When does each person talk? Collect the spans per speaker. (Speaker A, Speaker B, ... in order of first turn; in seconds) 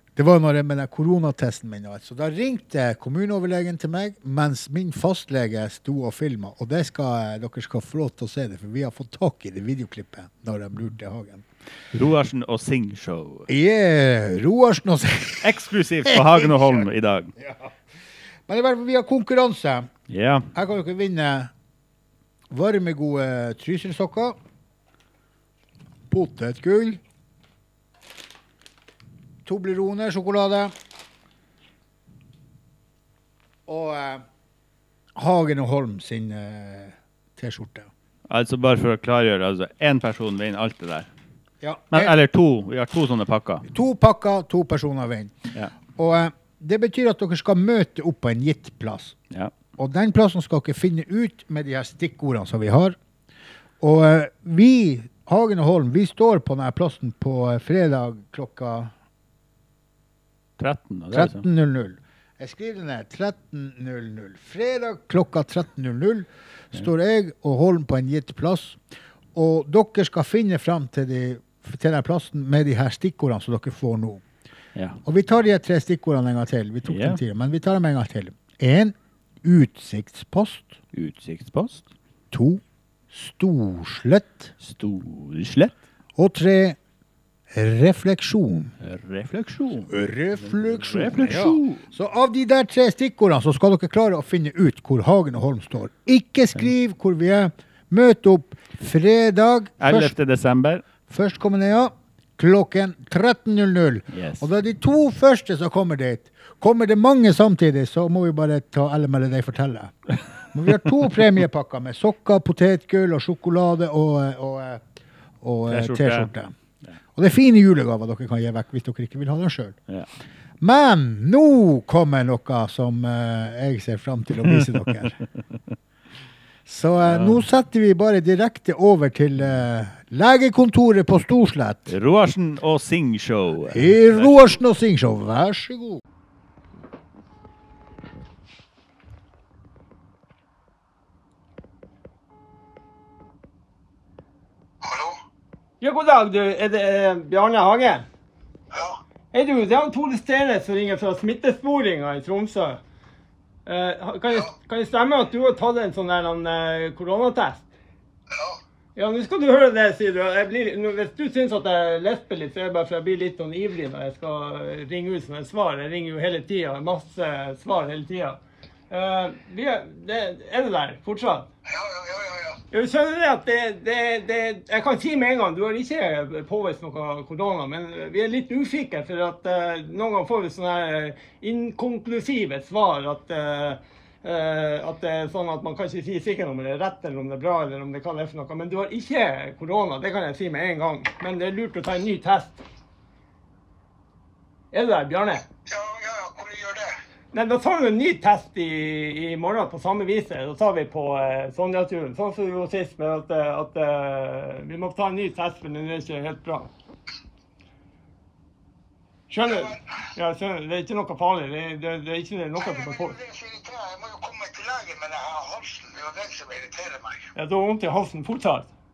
Speaker A: 0.1-11.4, 13.5-15.5, 16.1-16.8, 17.4-17.7, 18.5-19.9, 20.5-21.5, 22.5-24.4, 26.1-27.0, 29.4-30.7, 33.7-34.2, 35.1-37.9, 41.6-42.1, 43.7-45.3, 46.0-49.1, 49.8-53.0, 53.8-58.9, 61.1-68.8, 69.3-74.2, 75.0-80.8, 82.3-84.5, 86.2-86.8, 87.5-88.7, 89.9-100.1, 101.1-109.9, 110.5-114.8, 115.4-116.5, 117.2-119.8, 120.6-125.2, 126.7-131.9, 133.7-136.0
Speaker B: 11.9-13.5, 15.4-17.3, 20.1-20.5, 38.3-41.1, 41.9-43.6, 60.6-61.4, 76.9-77.2, 80.9-81.8, 84.6-85.8, 88.8-91.9, 99.8-100.8, 104.1-104.5, 115.7-116.3, 127.0-127.4, 131.9-134.5
Speaker C: 145.8-148.1, 149.3-152.8, 153.6-157.6, 158.9-171.5, 172.7-192.6, 194.7-195.4, 197.3-206.7, 209.3-213.2, 217.3-218.7
Speaker D: 213.7-216.0